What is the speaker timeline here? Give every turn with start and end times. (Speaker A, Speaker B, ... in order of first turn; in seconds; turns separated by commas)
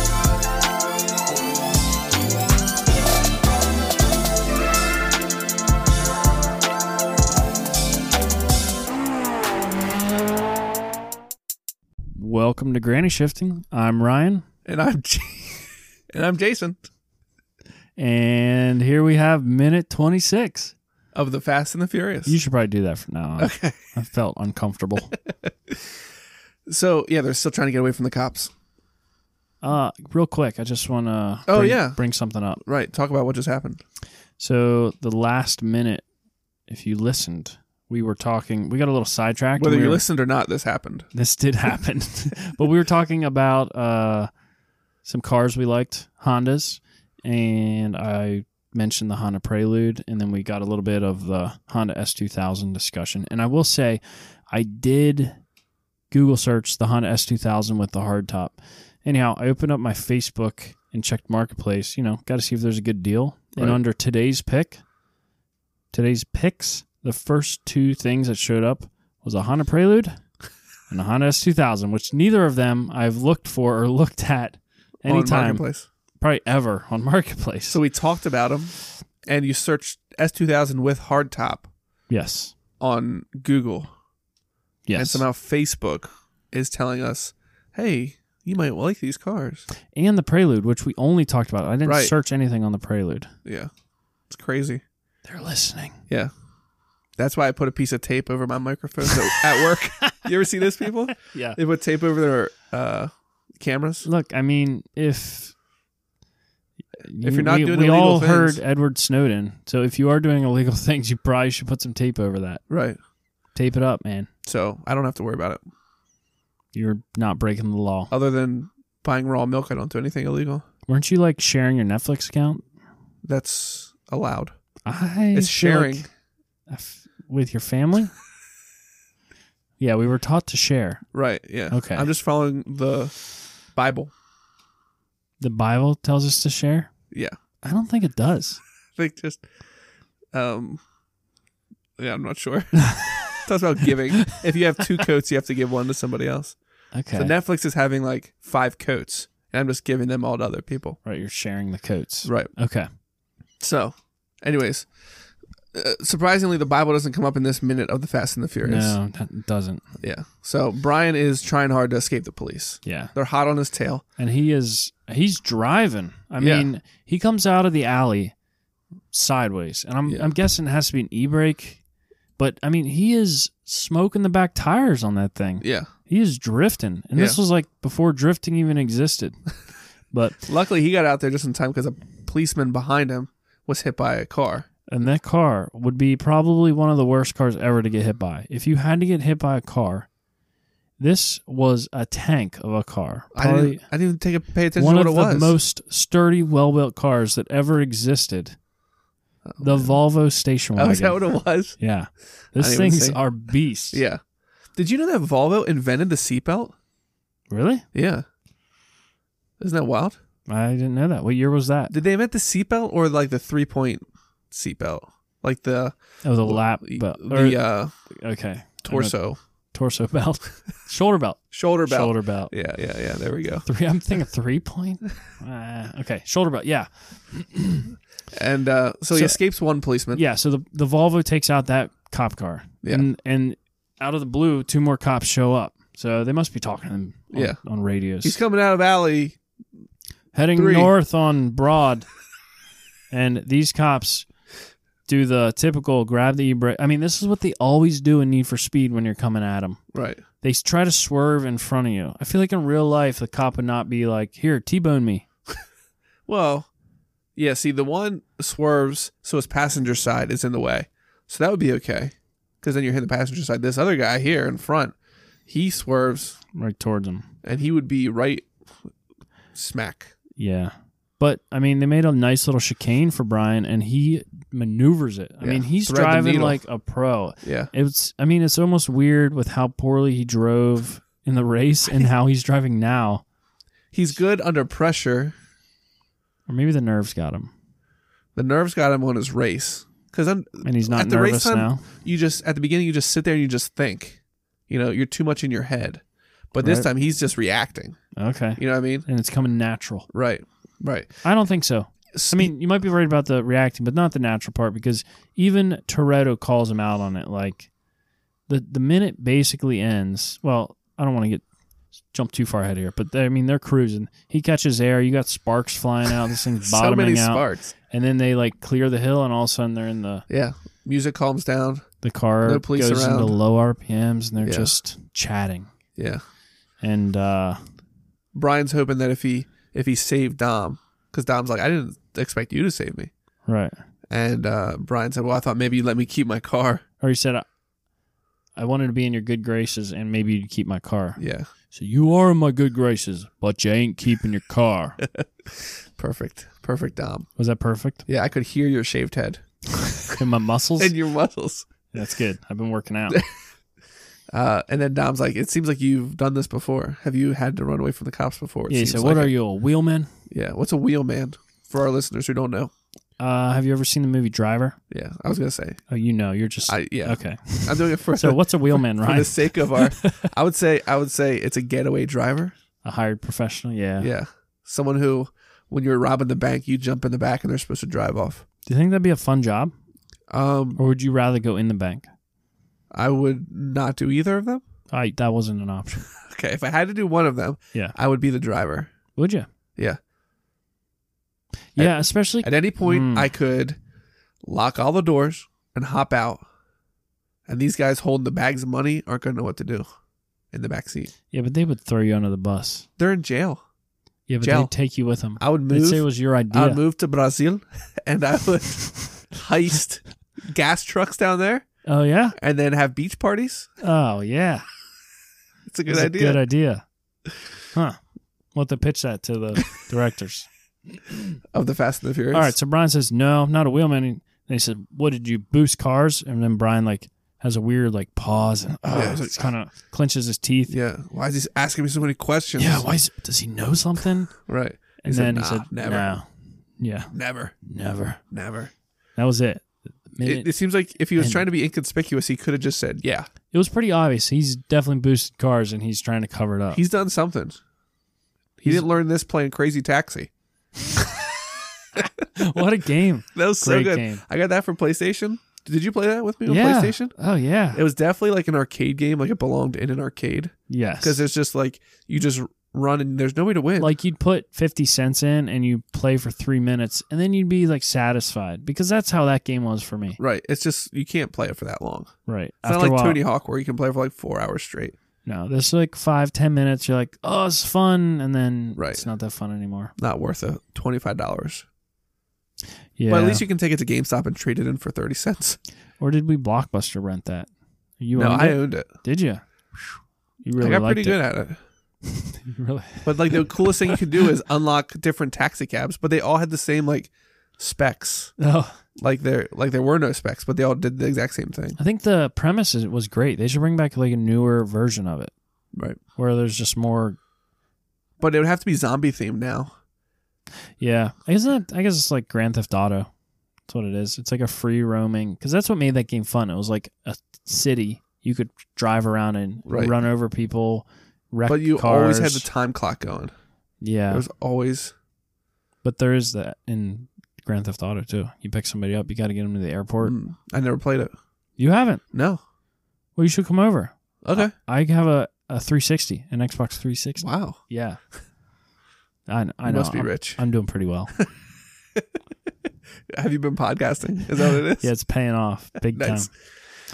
Speaker A: 12.1-14.4, Speaker B: 14.7-16.8, Speaker A: 18.0-20.7, Speaker B: 21.1-22.4, Speaker A: 22.3-25.1, Speaker B: 23.4-23.8, Speaker B: 26.7-28.5, Speaker A: 29.6-32.6, Speaker B: 31.5-32.0, Speaker B: 32.6-33.8, Speaker A: 34.4-36.0, Speaker A: 36.7-40.0, Speaker B: 39.6-41.1, Speaker A: 41.1-44.3, Speaker A: 45.1-55.4, Speaker A: 56.1-64.8, Speaker A: 65.9-70.2, Speaker A: 70.9-75.7, Speaker B: 75.0-75.9, Speaker A: 76.2-77.8, Speaker B: 77.7-78.8, Speaker B: 79.3-81.7, Speaker A: 82.1-82.5, Speaker B: 82.8-83.9, Speaker A: 84.9-85.2, Speaker B: 84.9-89.7, Speaker A: 89.9-93.3, Speaker B: 91.8-92.1, Speaker B: 93.5-93.7, Speaker B: 94.3-94.8, Speaker A: 95.2-96.0, Speaker B: 97.2-104.1, Speaker A: 101.1-101.6, Speaker A: 104.0-105.5, Speaker A: 107.0-112.6, Speaker B: 107.2-108.6, Speaker B: 112.7-113.0, Speaker A: 113.5-114.3, Speaker B: 114.5-115.6, Speaker A: 116.7-118.1, Speaker B: 118.1-120.7, Speaker A: 120.9-122.7, Speaker B: 123.2-124.5, Speaker A: 124.8-126.1, Speaker B: 125.3-126.1, Speaker A: 126.7-128.1, Speaker A: 129.8-131.0, Speaker B: 131.1-133.2, Speaker A: 131.7-132.1, Speaker B: 133.7-134.1, Speaker A: 135.4-136.9, Speaker A: 137.6-138.6, Speaker B: 139.0-139.4, Speaker B: 140.3-140.8, Speaker B: 142.0-146.6, Speaker A: 146.9-147.3, Speaker B: 147.1-151.0, Speaker A: 151.1-152.9, Speaker B: 152.2-152.5, Speaker B: 153.6-154.9, Speaker B: 155.7-159.0, Speaker A: 158.6-159.8, Speaker B: 160.0-164.0, Speaker A: 162.8-163.1, Speaker A: 164.2-168.3, Speaker B: 166.4-166.7, Speaker A: 169.1-171.8, Speaker B: 170.1-170.3, Speaker A: 172.4-179.4, Speaker B: 175.6-175.9, Speaker B: 177.2-177.4, Speaker A: 180.1-180.4, Speaker B: 180.4-184.7, Speaker A: 184.9-190.1, Speaker A: 191.0-193.8, Speaker B: 193.3-195.6, Speaker A: 194.8-198.6, Speaker B: 199.4-199.9, Speaker A: 199.6-204.0, Speaker B: 200.8-201.8, Speaker B: 202.6-203.2, Speaker B: 203.9-204.2, Speaker B: 204.8-206.8, Speaker A: 207.5-207.9, Speaker B: 207.9-208.2, Speaker B: 209.6-210.2, Speaker A: 210.5-211.9, Speaker B: 211.9-217.9, Speaker A: 216.2-219.2, Speaker B: 218.8-219.4, Speaker A: 219.7-222.5, Speaker B: 221.5-223.7, Speaker A: 223.7-228.0, Speaker B: 228.3-230.2, Speaker A: 229.1-229.4, Speaker A: 230.1-238.4, Speaker B: 237.3-237.6, Speaker B: 238.2-239.4, Speaker A: 240.3-242.1, Speaker B: 240.5-240.9, Speaker A: 243.1-244.3, Speaker A: 245.1-249.8, Speaker B: 249.9-250.2, Speaker A: 250.4-255.2, Speaker B: 256.3-256.7, Speaker B: 257.4-264.9, Speaker B: 265.5-266.4, Speaker A: 266.5-267.3, Speaker B: 267.4-268.5, Speaker B: 269.5-270.1, Speaker A: 270.4-283.2, Speaker B: 275.4-276.6, Speaker B: 277.4-277.7, Speaker B: 283.9-285.4, Speaker A: 286.5-287.5, Speaker B: 288.4-298.0, Speaker A: 290.6-291.9, Speaker A: 296.6-296.9, Speaker A: 298.2-300.1, Speaker B: 298.6-299.1, Speaker B: 300.1-301.1, Speaker A: 301.2-307.7, Speaker B: 302.1-302.5, Speaker A: 308.5-311.4, Speaker A: 312.1-320.3, Speaker B: 316.7-317.8, Speaker B: 320.3-321.9, Speaker A: 322.0-325.7, Speaker B: 322.4-323.4, Speaker B: 324.4-324.7, Speaker B: 325.9-326.2, Speaker A: 326.8-327.6, Speaker B: 328.4-333.1, Speaker A: 333.5-333.8, Speaker B: 334.1-336.8, Speaker A: 337.0-337.4, Speaker A: 338.6-341.2, Speaker B: 341.2-341.5, Speaker A: 341.7-345.0, Speaker B: 345.1-347.3, Speaker A: 347.4-348.1, Speaker B: 348.1-350.2, Speaker A: 350.1-350.9, Speaker B: 350.8-351.7, Speaker A: 351.9-353.2, Speaker B: 354.3-359.4, Speaker A: 358.7-360.1, Speaker B: 360.3-362.7, Speaker A: 363.2-364.8, Speaker B: 364.9-365.8, Speaker A: 365.9-370.3, Speaker B: 366.7-372.5, Speaker A: 372.8-374.1, Speaker B: 374.0-378.4, Speaker A: 378.7-379.7, Speaker B: 380.3-380.8, Speaker A: 380.8-382.1, Speaker B: 382.9-384.6, Speaker A: 384.9-386.1, Speaker B: 386.2-388.9, Speaker A: 389.2-389.5, Speaker A: 391.8-393.3, Speaker B: 391.8-393.8, Speaker B: 394.4-396.4, Speaker B: 397.5-399.9, Speaker B: 400.5-401.1, Speaker A: 401.3-402.9, Speaker B: 403.0-403.6, Speaker A: 404.3-406.8, Speaker B: 404.4-404.7, Speaker B: 405.4-411.6, Speaker A: 411.9-412.4, Speaker B: 412.4-413.7, Speaker A: 413.8-414.7, Speaker B: 415.7-416.4, Speaker A: 415.9-416.8, Speaker A: 417.7-418.0, Speaker A: 418.5-421.2, Speaker B: 421.5-422.5, Speaker A: 422.3-430.7, Speaker B: 428.9-429.5, Speaker B: 430.7-433.0, Speaker A: 432.6-434.4, Speaker B: 434.5-436.1, Speaker A: 435.0-438.2, Speaker B: 437.1-437.5, Speaker B: 438.3-438.7, Speaker A: 439.2-440.5, Speaker B: 440.2-443.3, Speaker A: 441.2-441.4, Speaker A: 443.5-446.8, Speaker B: 446.7-447.6, Speaker B: 448.6-450.3, Speaker A: 452.3-454.2, Speaker B: 453.4-457.1, Speaker A: 456.5-457.8, Speaker B: 457.7-463.9, Speaker A: 460.7-461.2, Speaker A: 463.8-470.2, Speaker B: 470.2-472.1, Speaker A: 472.3-473.2, Speaker B: 472.6-475.0, Speaker A: 475.3-479.9, Speaker B: 478.8-479.1, Speaker B: 480.0-481.7, Speaker A: 483.0-483.4, Speaker B: 483.1-485.6, Speaker A: 486.0-489.4, Speaker B: 488.1-488.9, Speaker A: 490.4-491.2, Speaker B: 490.6-491.6, Speaker A: 492.1-494.0, Speaker B: 493.1-498.3, Speaker A: 498.4-498.8, Speaker B: 499.0-501.8, Speaker A: 501.8-505.3, Speaker A: 506.2-507.2, Speaker B: 508.2-509.7, Speaker A: 510.8-513.1, Speaker A: 513.7-522.5, Speaker B: 519.7-520.0, Speaker B: 521.5-523.3, Speaker A: 523.8-524.2, Speaker B: 524.1-524.9, Speaker A: 525.8-530.1, Speaker B: 530.0-531.1, Speaker A: 531.6-532.0, Speaker B: 532.1-532.4, Speaker A: 533.2-538.0, Speaker B: 534.2-534.5, Speaker B: 537.2-537.6, Speaker A: 539.3-541.1, Speaker B: 539.7-540.4, Speaker B: 543.1-544.9, Speaker A: 544.8-546.3, Speaker B: 545.9-546.3